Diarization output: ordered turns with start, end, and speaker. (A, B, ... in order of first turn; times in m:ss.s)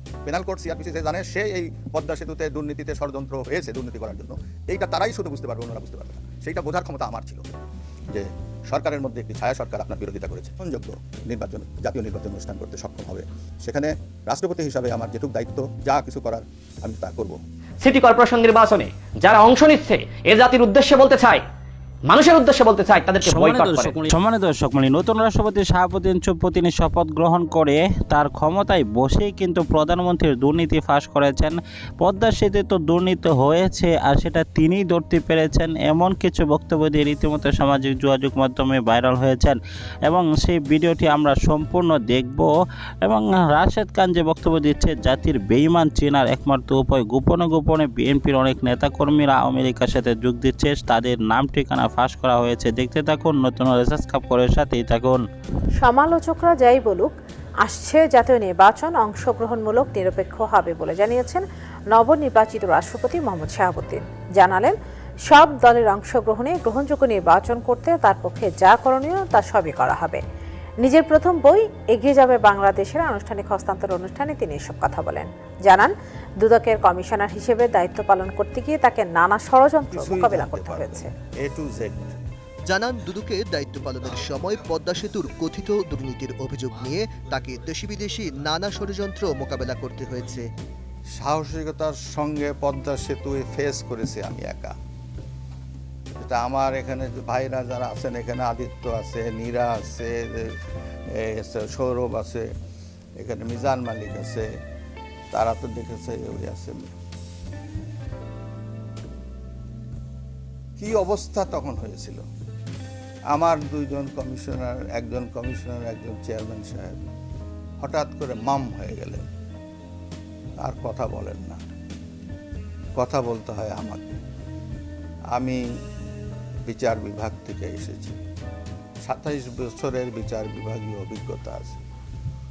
0:00.2-0:07.4 A
0:08.1-0:17.4 A
0:17.8-0:21.4 B
0:22.1-0:24.0 B
0:23.2-0:39.6 C
0:40.1-0:42.5 C
0:43.0-0:55.2 C
0:55.8-1:10.2 D
1:10.8-1:21.1 D
1:19.8-1:22.2 A
1:22.7-1:30.4 E
1:31.2-1:34.7 A
1:36.2-1:40.5 A
1:41.2-1:42.4 A
1:43.2-1:44.5 A
1:45.3-1:46.9 A
1:50.8-1:52.2 A
1:53.3-1:57.0 A
1:57.8-1:59.2 A
2:00.6-2:01.6 A
2:03.0-2:04.2 A
2:05.3-2:05.6 A
2:06.7-2:08.2 A
2:09.0-2:11.8 A